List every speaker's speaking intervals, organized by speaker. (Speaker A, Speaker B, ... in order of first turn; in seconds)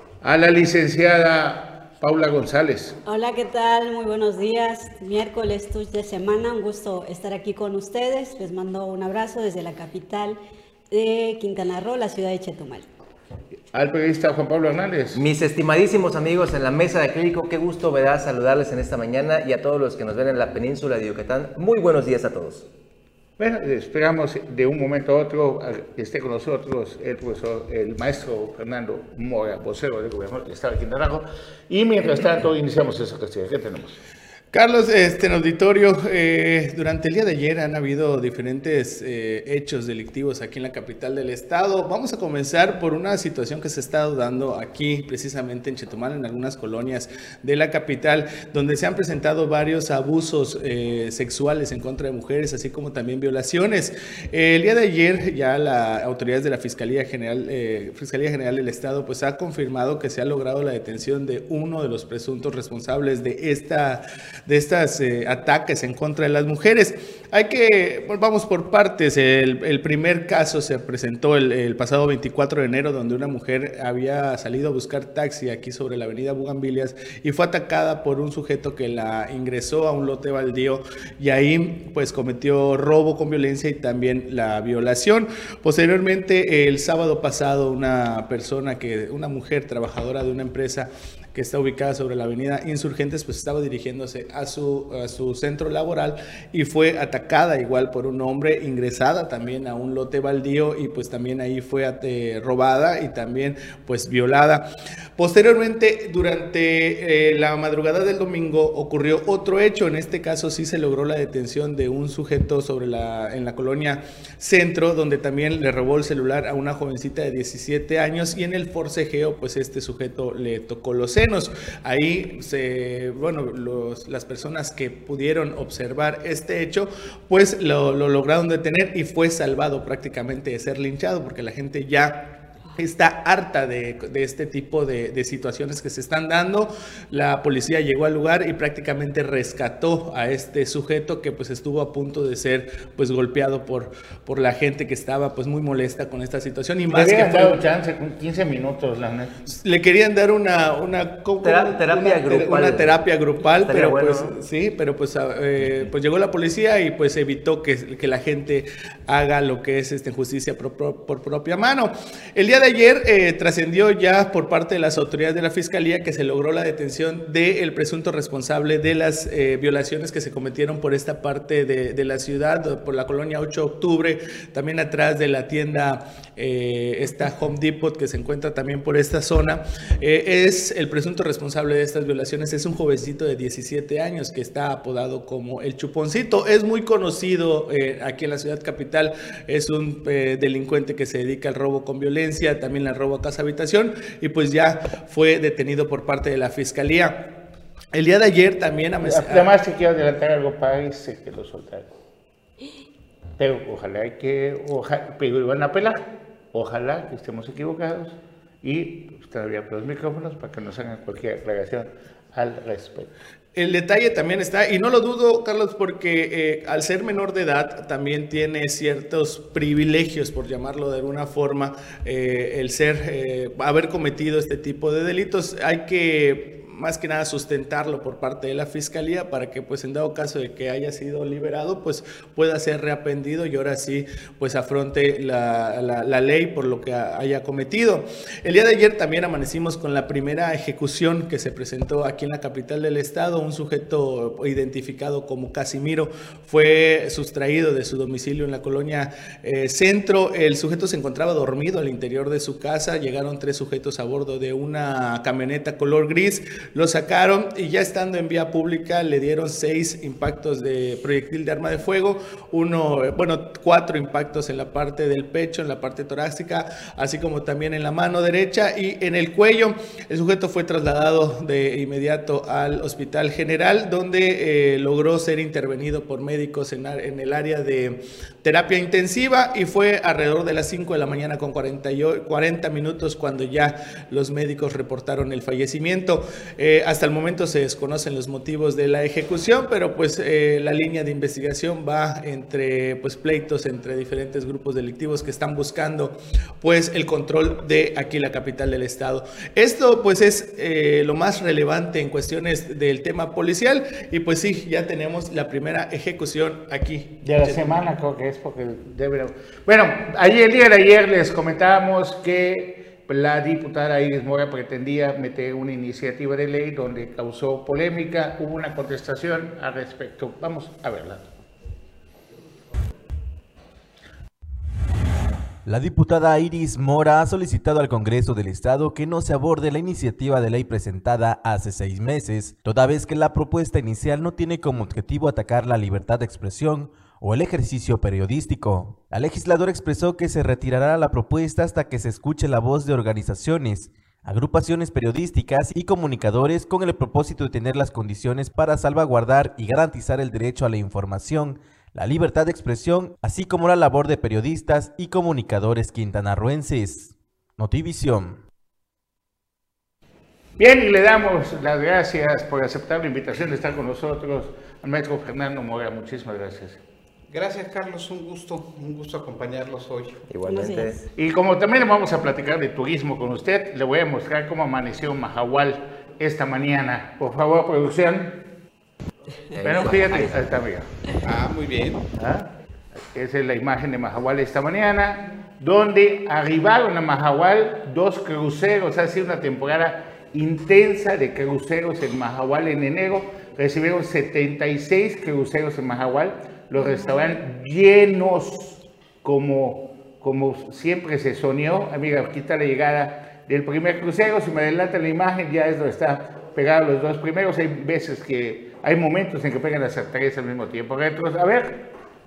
Speaker A: 0.2-3.0, 13.7-15.2, 23.4-34.0, 146.9-149.4, 199.0-201.9, 203.4-213.1, 307.2-321.3, 360.6-366.8, 371.1-378.5, 379.6-380.9, 382.1-411.9
Speaker B: 3.0-10.4, 10.9-12.9, 370.4-371.0
Speaker C: 15.1-22.7, 151.4-152.9, 153.5-154.3, 370.3-371.0, 379.5-380.6
Speaker D: 34.5-147.6, 149.5-197.3, 197.9-199.5, 213.6-307.8
Speaker E: 325.7-358.4
Speaker F: 367.3-370.3, 381.1-382.1